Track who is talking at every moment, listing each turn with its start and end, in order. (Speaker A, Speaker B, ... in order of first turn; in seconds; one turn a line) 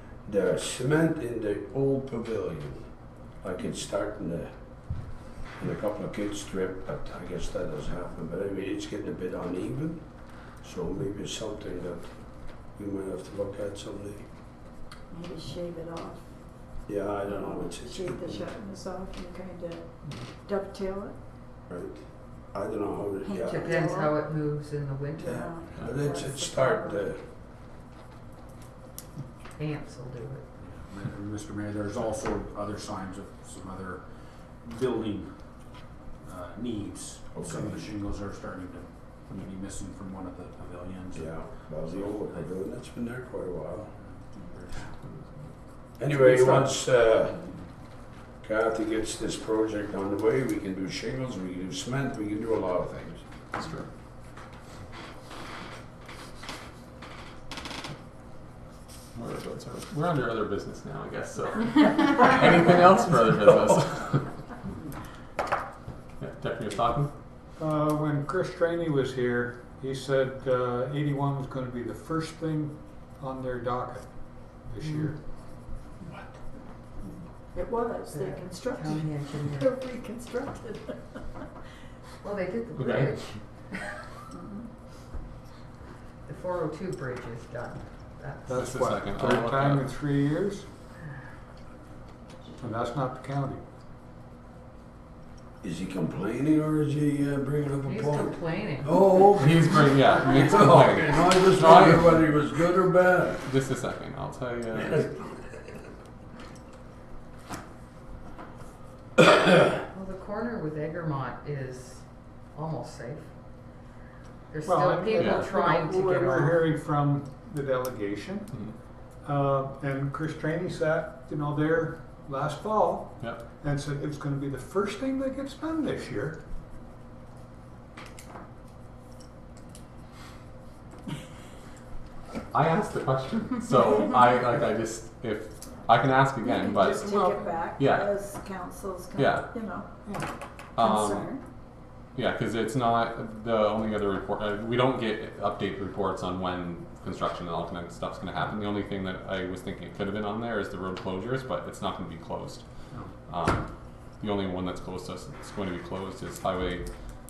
Speaker A: 0.2-2.9
Speaker A: 3.4-4.6
Speaker A: 5.6-14.2
Speaker B: 15.1-16.3
Speaker A: 16.9-18.5
Speaker B: 17.3-21.1
Speaker A: 21.7-23.7
Speaker B: 23.2-24.1
Speaker C: 23.5-25.5
Speaker A: 25.2-27.2
Speaker B: 25.4-27.1
Speaker C: 29.6-30.4
Speaker D: 30.6-42.5
Speaker A: 37.3-37.9
Speaker A: 41.1-43.9
Speaker D: 44.0-45.0
Speaker A: 46.0-47.4
Speaker D: 46.4-46.8
Speaker D: 47.4-47.7
Speaker A: 48.4-53.2
Speaker E: 53.6-53.9
Speaker E: 59.1-64.6
Speaker E: 66.2-67.1
Speaker F: 67.6-75.2
Speaker C: 74.8-75.1
Speaker B: 77.5-81.2
Speaker C: 78.1-79.7
Speaker C: 82.2-84.0
Speaker E: 82.8-83.4
Speaker B: 84.3-84.7
Speaker C: 86.2-88.6
Speaker F: 88.5-90.7
Speaker E: 88.6-89.9
Speaker F: 92.6-93.6
Speaker A: 95.6-103.4
Speaker C: 97.8-99.2
Speaker E: 99.4-102.2
Speaker E: 103.4-105.1
Speaker A: 104.8-105.3
Speaker C: 109.9-113.3
Speaker C: 114.5-116.6
Speaker F: 114.6-118.6
Speaker E: 115.2-115.5
Speaker F: 119.2-126.4
Speaker E: 132.5-137.1
Speaker B: 136.4-139.9
Speaker F: 137.0-137.6
Speaker E: 137.8-138.3
Speaker E: 139.2-139.5
Speaker E: 140.8-141.3
Speaker B: 140.8-141.4
Speaker E: 142.2-152.6
Speaker E: 153.3-156.9